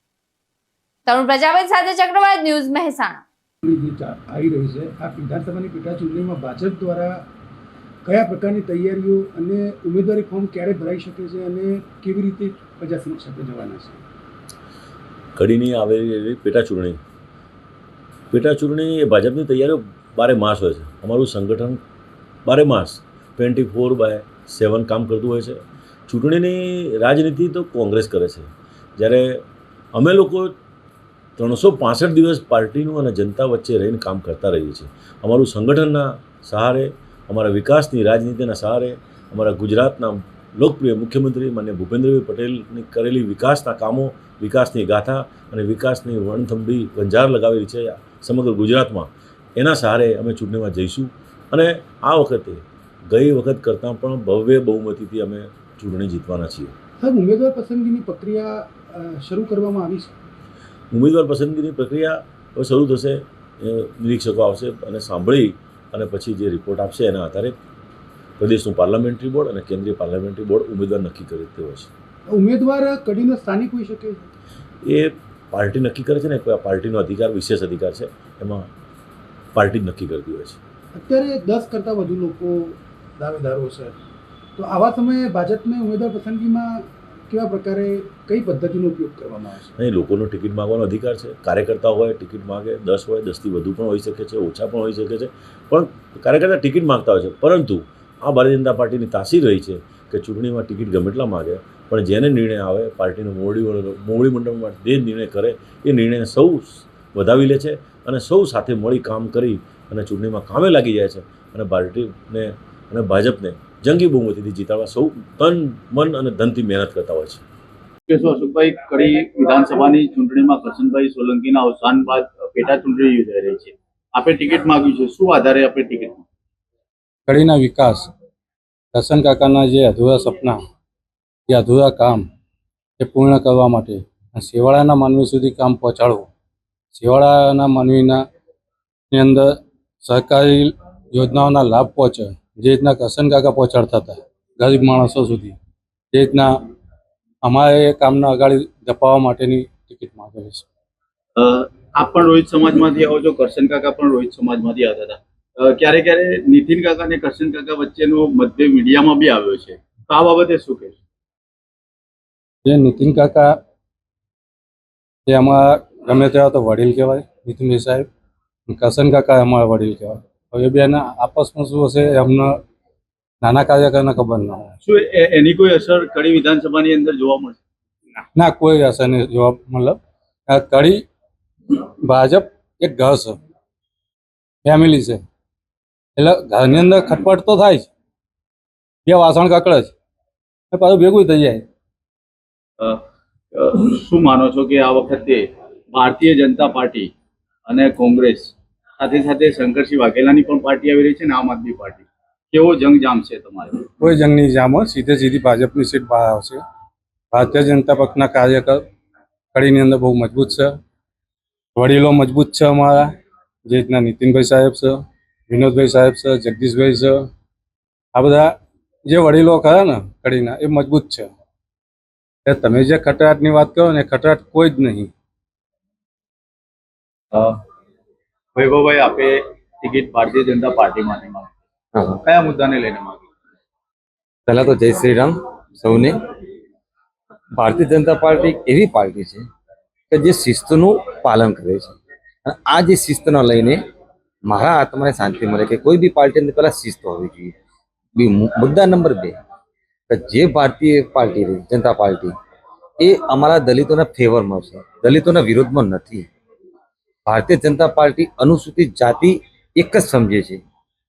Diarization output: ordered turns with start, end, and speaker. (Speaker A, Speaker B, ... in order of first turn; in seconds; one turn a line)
Speaker A: 1.1-3.2
Speaker B: 3.6-7.2
Speaker B: 8.1-14.0
Speaker C: 15.4-17.0
Speaker C: 18.3-21.8
Speaker C: 22.4-30.6
Speaker C: 31.4-56.7
Speaker B: 57.0-60.1
Speaker C: 60.9-67.5
Speaker C: 68.4-71.9
Speaker B: 72.3-74.2
Speaker C: 74.8-78.7
Speaker C: 79.5-80.6
Speaker B: 81.0-84.0
Speaker B: 84.6-89.7
Speaker C: 89.8-117.4
Speaker D: 118.1-126.2
Speaker E: 127.3-128.1
Speaker E: 128.9-130.6
Speaker E: 131.5-132.3
Speaker E: 133.0-136.3
Speaker E: 136.9-138.2
Speaker E: 139.1-145.6
Speaker E: 146.1-146.5
Speaker E: 147.4-150.7
Speaker D: 151.4-161.0
Speaker E: 162.7-163.6
Speaker E: 165.3-168.1
Speaker E: 168.7-172.6
Speaker E: 173.4-174.7
Speaker D: 174.8-177.6
Speaker E: 178.3-181.0
Speaker E: 181.7-183.4
Speaker E: 184.7-185.2
Speaker E: 186.2-187.9
Speaker E: 189.1-189.9
Speaker E: 190.7-191.6
Speaker D: 193.6-197.1
Speaker D: 197.7-203.8
Speaker E: 204.0-206.6
Speaker E: 207.3-208.8
Speaker E: 209.5-210.7
Speaker E: 211.8-213.1
Speaker E: 213.7-217.2
Speaker E: 218.2-218.5
Speaker E: 219.1-221.3
Speaker E: 222.5-225.1
Speaker D: 228.6-231.6
Speaker D: 232.2-233.2
Speaker F: 234.5-236.2
Speaker F: 237.6-239.5
Speaker F: 240.1-243.8
Speaker F: 244.5-247.5
Speaker F: 248.2-249.4
Speaker F: 250.1-252.3
Speaker F: 253.0-256.3
Speaker F: 257.3-260.6